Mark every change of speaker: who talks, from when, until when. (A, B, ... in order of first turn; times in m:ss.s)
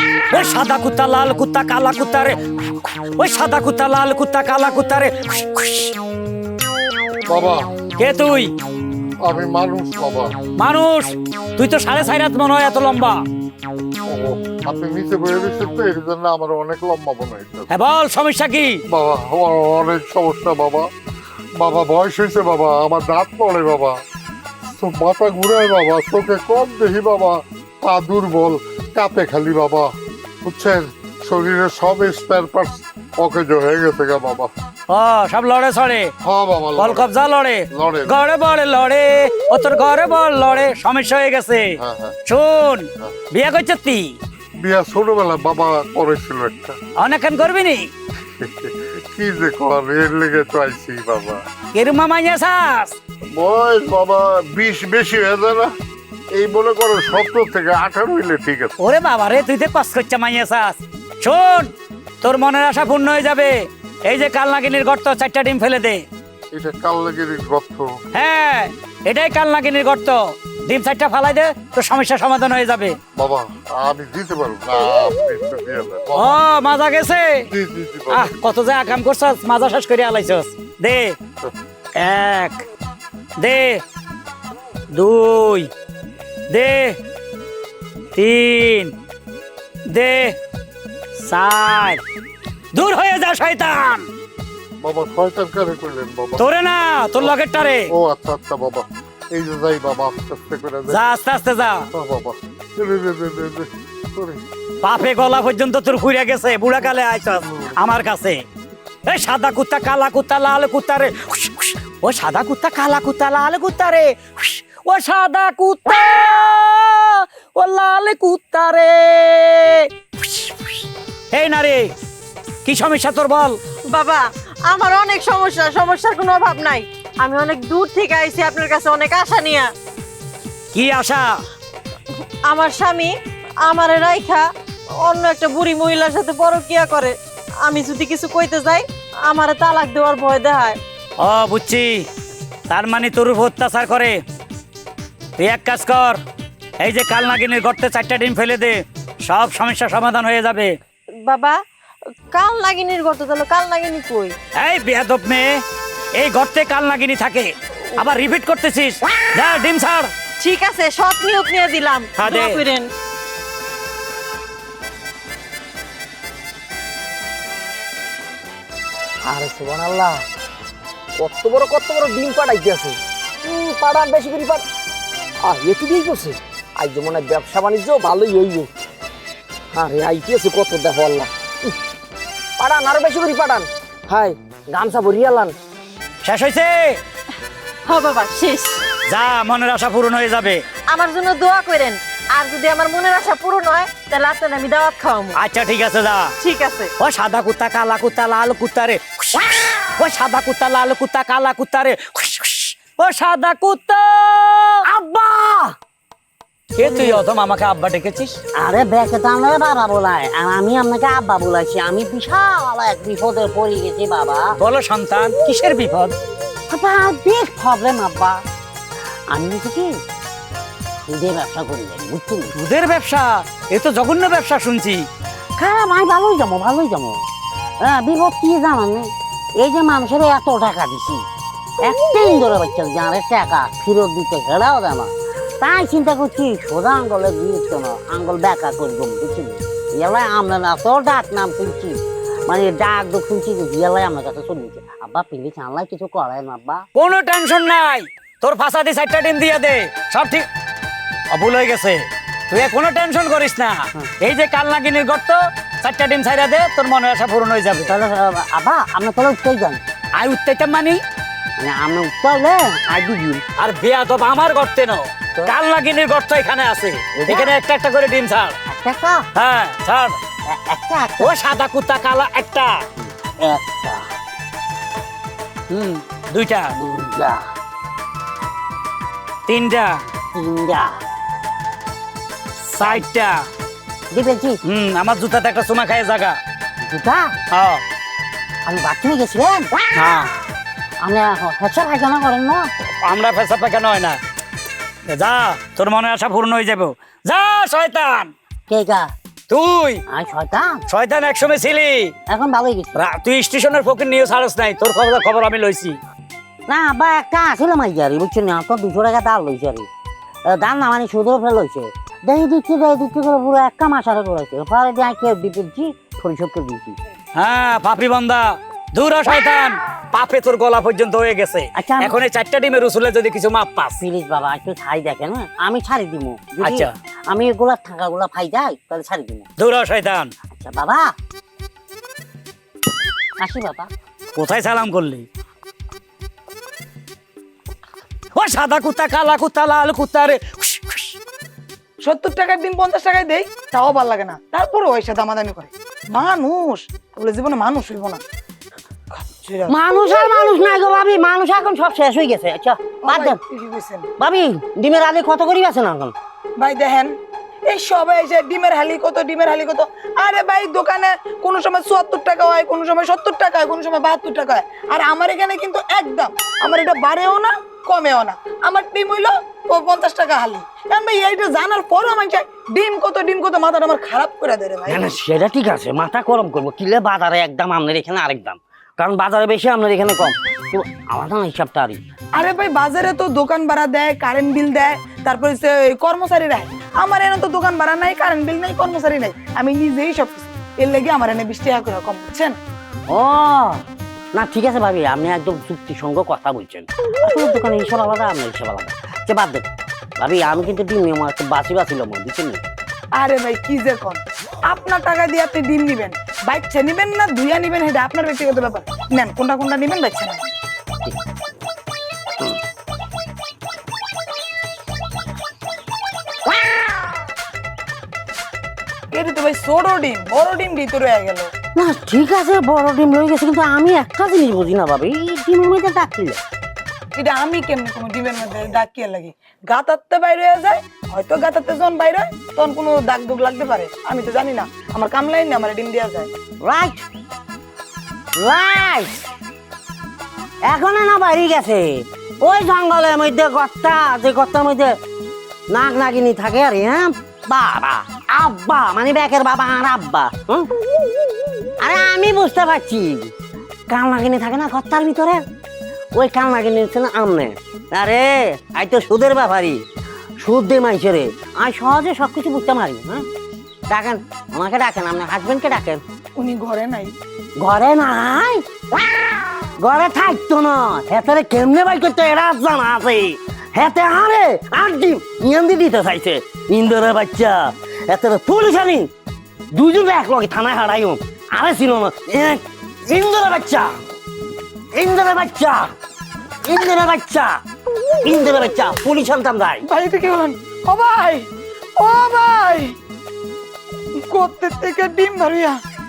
0:00.3-0:06.0 A
0:07.3-0:07.7 B
0:08.0-0:08.5 A
0:09.2-0:10.3 B
0:10.6-0:13.2 A
0:14.1-0:17.7 B
0:17.7-0:18.8 A
0:18.9-0:20.9 B
0:21.6-0:24.0 B
0:24.7-0:34.5 B
0:34.9-0:36.1 A
0:36.2-0:37.1 B
0:36.8-0:41.7 A
0:37.7-0:38.2 B
0:41.8-0:42.2 B
0:42.3-0:44.2 A
0:44.6-0:46.8 B
0:47.0-0:47.8 A
0:48.4-0:51.4 B
0:51.7-0:53.0 A
0:53.3-0:55.7 B
0:56.3-0:58.8 B
0:58.8-1:01.7 A
1:02.2-1:03.5 A
1:04.1-1:06.0 A
1:06.5-1:07.9 B
1:08.2-1:13.0 A
1:13.2-1:16.4 B
1:16.2-1:17.3 A
1:17.5-1:18.3 B
1:18.1-1:21.2 A
1:22.0-1:22.6 A
1:23.4-1:23.8 A
1:24.9-1:25.7 A
1:26.5-1:27.0 A
1:28.2-1:28.9 A
1:29.9-1:30.4 A
1:31.2-1:32.0 A
1:32.7-1:34.1 A
1:34.8-1:36.5 B
1:36.4-1:37.9 A
1:37.9-1:41.0 B
1:40.9-1:41.8 A
1:41.9-1:44.4 B
1:44.8-1:48.4 A
1:49.1-2:01.9 A
2:02.6-2:03.6 A
2:03.9-2:09.7 C
2:10.7-2:11.2 A
2:12.5-2:14.5 C
2:15.0-2:20.8 C
2:21.2-2:22.1 A
2:22.7-2:24.2 A
2:25.4-2:26.2 A
2:26.8-2:30.7 A
2:31.3-2:31.6 C
2:32.3-2:34.4 C
2:34.6-2:35.6 A
2:36.2-2:40.1 A
2:40.4-2:42.9 C
2:42.2-2:42.6 A
2:49.3-2:50.2 D
2:51.2-2:54.7 D
2:55.4-2:58.7 D
2:59.7-3:01.8 D
3:02.6-3:05.6 D
3:06.2-3:07.0 A
3:07.9-3:08.8 C
3:09.1-3:10.6 A
3:10.9-3:15.4 C
3:15.4-3:16.3 A
3:16.4-3:16.9 C
3:17.0-3:24.8 A
3:24.9-3:25.7 E
3:26.8-3:28.4 A
3:26.8-3:27.2 E
3:28.6-3:34.5 E
3:34.6-3:36.2 A
3:36.7-3:38.4 E
3:39.3-3:39.9 E
3:41.0-3:42.6 E
3:42.6-3:45.1 A
3:45.6-3:47.2 E
3:47.8-3:49.1 E
3:49.6-3:51.2 E
3:51.8-4:06.9 E
4:07.0-4:10.4 A
4:11.3-4:17.9 A
4:17.9-4:19.8 E
4:20.2-4:21.0 A
4:21.6-4:23.4 E
4:23.6-4:28.6 A
4:27.2-4:27.5 E
4:28.7-4:29.2 E
4:29.4-4:30.2 A
4:30.5-4:31.3 E
4:31.2-4:32.8 A
4:33.0-4:34.0 E
4:35.7-4:36.7 A
4:36.8-4:37.4 E
4:39.5-4:40.0 A
4:40.3-4:41.0 E
4:42.7-4:43.4 A
4:44.1-4:44.6 E
4:44.7-4:46.4 A
4:46.8-4:47.4 E
4:47.5-4:47.8 A
4:48.6-4:49.8 E
4:49.9-4:50.3 A
4:51.0-4:52.7 E
4:52.9-4:54.2 A
4:55.1-4:58.3 A
4:58.7-4:59.1 E
4:59.5-5:00.0 A
5:00.1-5:00.8 E
5:00.9-5:02.1 A
5:02.3-5:03.0 E
5:03.0-5:06.0 A
5:06.7-5:09.9 E
5:10.5-5:17.0 E
5:17.4-5:24.0 A
5:21.8-5:22.2 E
5:24.0-5:29.5 E
5:26.6-5:26.9 A
5:29.6-5:30.3 A
5:30.5-5:31.1 E
5:33.4-5:33.9 E
5:34.4-5:35.3 A
5:38.4-5:41.2 A
5:42.0-5:48.2 F
5:49.1-5:49.8 F
5:49.7-5:53.4 E
5:53.1-5:54.1 F
5:54.2-5:56.1 E
5:56.6-5:57.1 F
5:57.7-6:15.2 F
6:14.9-6:22.0 E
6:22.4-6:32.6 F
6:33.1-6:33.8 E
6:34.3-6:39.7 E
6:40.2-6:42.6 E
6:43.2-6:50.5 F
6:59.1-7:01.5 F
7:01.8-7:06.4 E
7:07.2-7:16.3 F
7:16.6-7:17.0 E
7:18.4-7:19.2 E
7:20.7-7:25.0 E
7:25.7-7:30.7 E
7:31.8-7:33.3 E
7:33.9-7:35.4 E
7:36.1-7:39.8 E
7:40.4-7:43.3 E
7:43.9-7:46.0 E
7:46.4-7:47.1 F
7:47.6-7:59.1 E
7:59.7-8:04.0 E
8:04.9-8:05.9 E
8:06.6-8:07.6 E
8:08.2-8:09.9 E
8:09.9-8:13.0 F
8:14.2-8:15.8 F